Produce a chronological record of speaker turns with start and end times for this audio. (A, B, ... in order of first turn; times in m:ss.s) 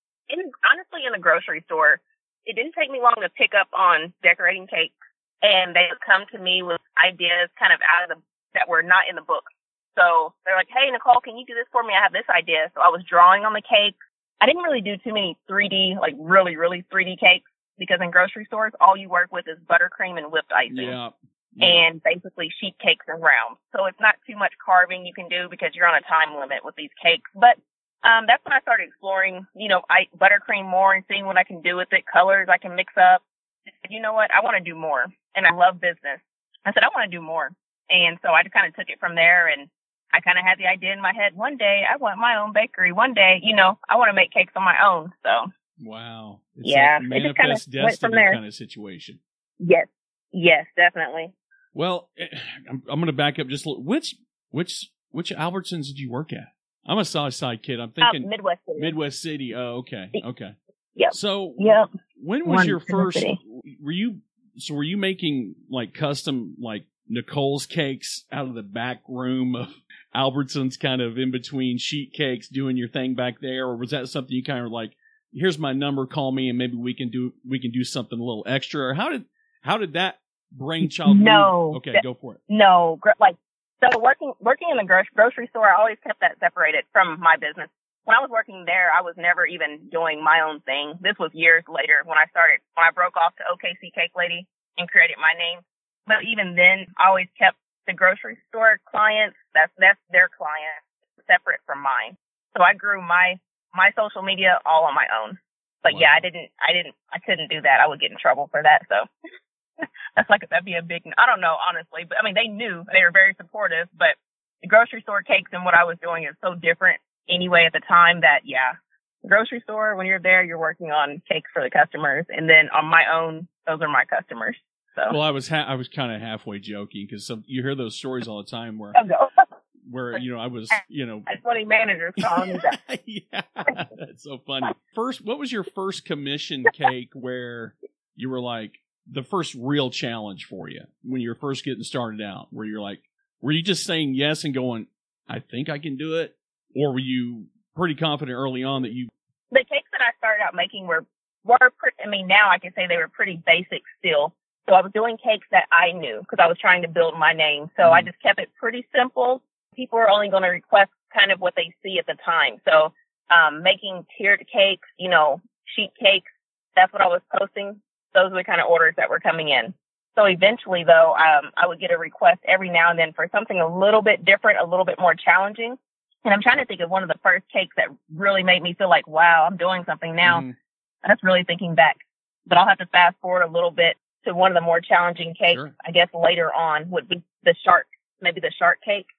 0:00.3-0:21.0 A
0:20.7-0:21.8 B
0:21.6-0:33.2 A
0:33.8-0:45.5 A
0:45.8-0:49.2 B
0:46.6-0:48.4 A
0:49.6-0:51.3 A
0:51.8-1:00.6 B
0:58.0-0:58.9 A
1:01.0-1:01.9 A
1:01.1-1:22.4 B
1:02.4-1:03.4 A
1:20.8-1:49.1 A
1:45.9-1:46.2 B
1:49.8-2:05.2 A
2:05.1-2:09.0 B
2:08.9-2:09.5 A
2:09.8-2:11.3 B
2:10.7-2:12.8 A
2:12.2-2:29.1 B
2:29.5-2:46.2 A
2:37.8-2:38.1 B
2:46.8-3:00.4 A
3:00.2-3:00.6 B
3:01.0-3:09.1 A
3:05.5-3:05.7 B